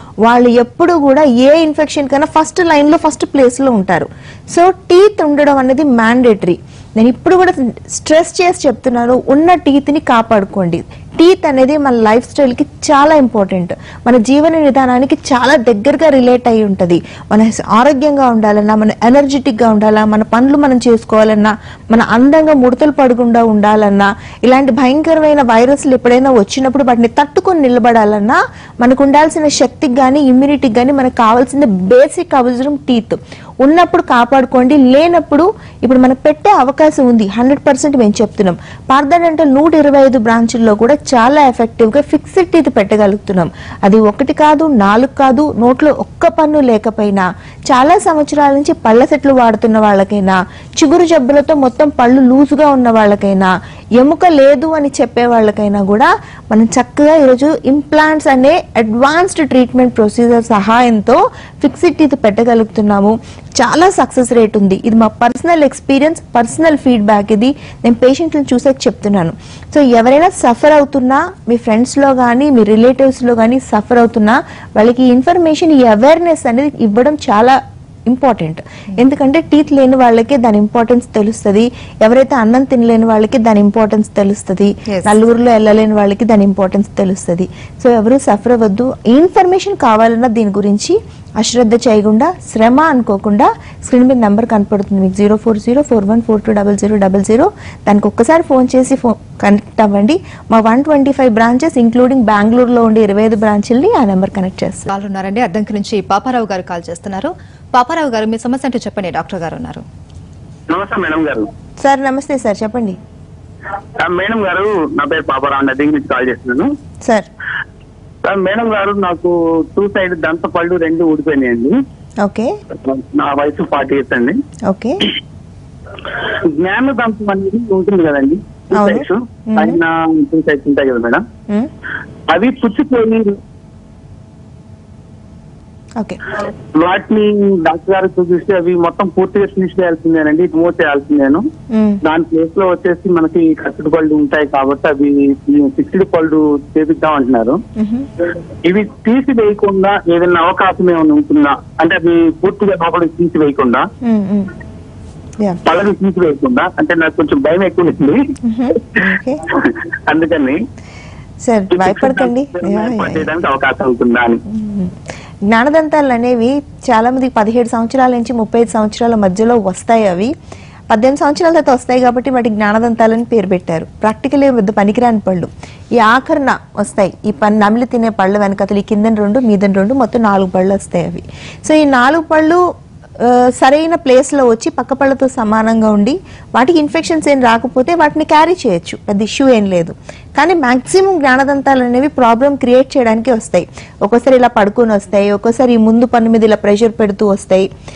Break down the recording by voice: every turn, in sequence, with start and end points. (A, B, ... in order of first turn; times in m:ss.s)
0:00.2-1:44.9 A
1:44.9-1:49.8 B
1:50.7-1:51.5 C
1:51.8-1:53.0 A
1:54.0-1:56.7 C
1:58.2-2:01.8 C
2:02.2-2:02.5 A
2:02.8-2:04.4 C
2:04.7-2:05.0 A
2:06.4-2:11.2 C
2:08.7-2:09.8 A
2:12.3-2:13.4 C
2:16.8-2:21.4 C
2:21.7-2:22.0 A
2:22.0-2:27.6 C
2:27.8-2:28.1 A
2:28.6-2:33.9 C
2:34.0-2:34.5 A
2:35.7-2:40.6 C
2:38.4-2:39.4 A
2:41.4-2:43.3 A
2:41.7-2:44.4 C
2:44.5-2:45.0 A
2:45.5-2:50.3 A
2:50.9-3:02.6 A
3:03.2-3:17.7 A